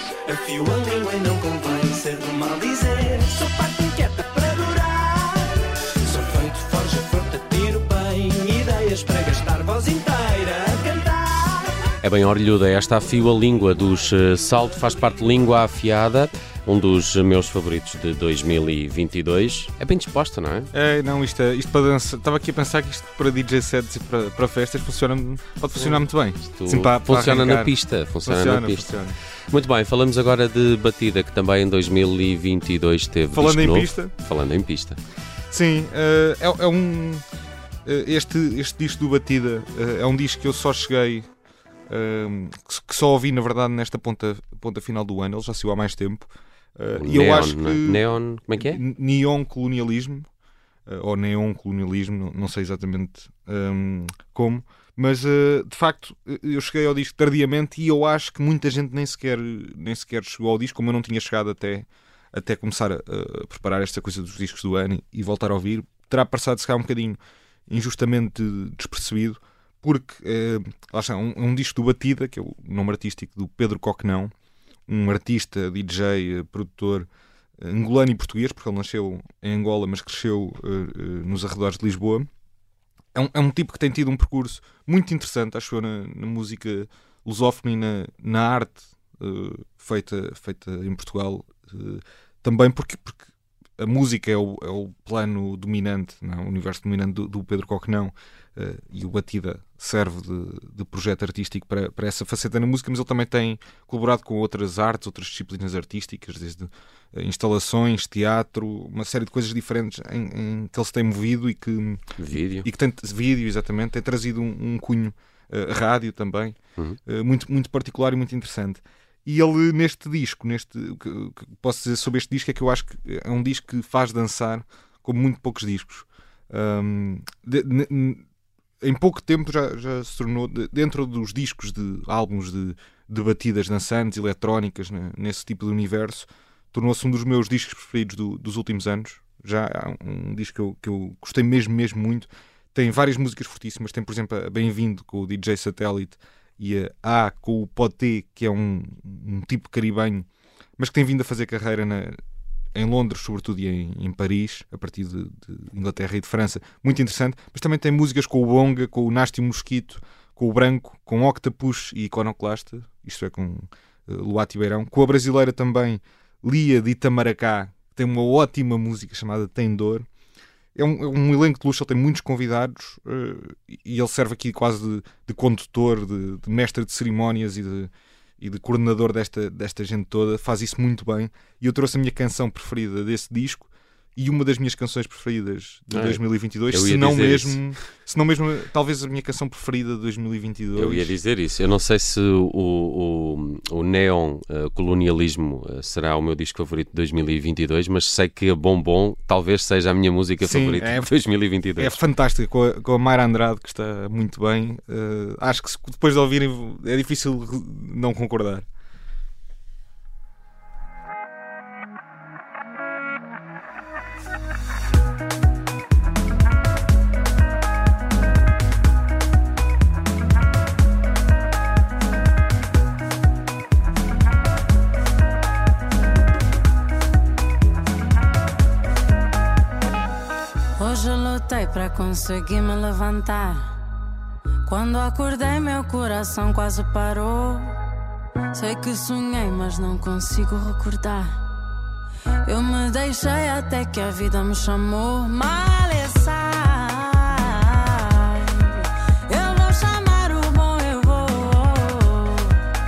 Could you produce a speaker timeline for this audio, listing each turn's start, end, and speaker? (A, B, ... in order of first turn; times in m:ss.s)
0:00.2-0:11.9 A
0:12.0-0:20.7 B
0:20.7-0:27.7 C
0:25.8-0:28.9 B
0:28.2-0:29.2 C
0:29.5-0:35.0 B
0:33.3-0:34.1 C
0:35.5-0:37.2 C
0:37.8-0:41.3 C
0:41.9-0:48.0 C
0:47.0-0:48.8 B
0:48.6-0:50.3 C
0:50.9-1:14.3 C
1:14.9-1:17.1 C
1:17.6-1:22.3 C
1:23.1-1:33.2 C
1:33.8-1:52.0 C
1:52.2-1:52.7 B
1:52.6-2:08.2 C
2:08.8-2:30.3 C
2:30.8-2:32.2 C
2:32.7-2:50.1 C
2:50.7-3:11.1 C
3:05.9-3:07.6 B
3:10.7-3:22.0 B
3:20.4-3:21.1 C
3:21.8-3:28.6 C
3:50.8-3:53.7 D
3:54.6-3:57.8 D
3:58.5-4:01.4 D
4:02.4-4:12.6 D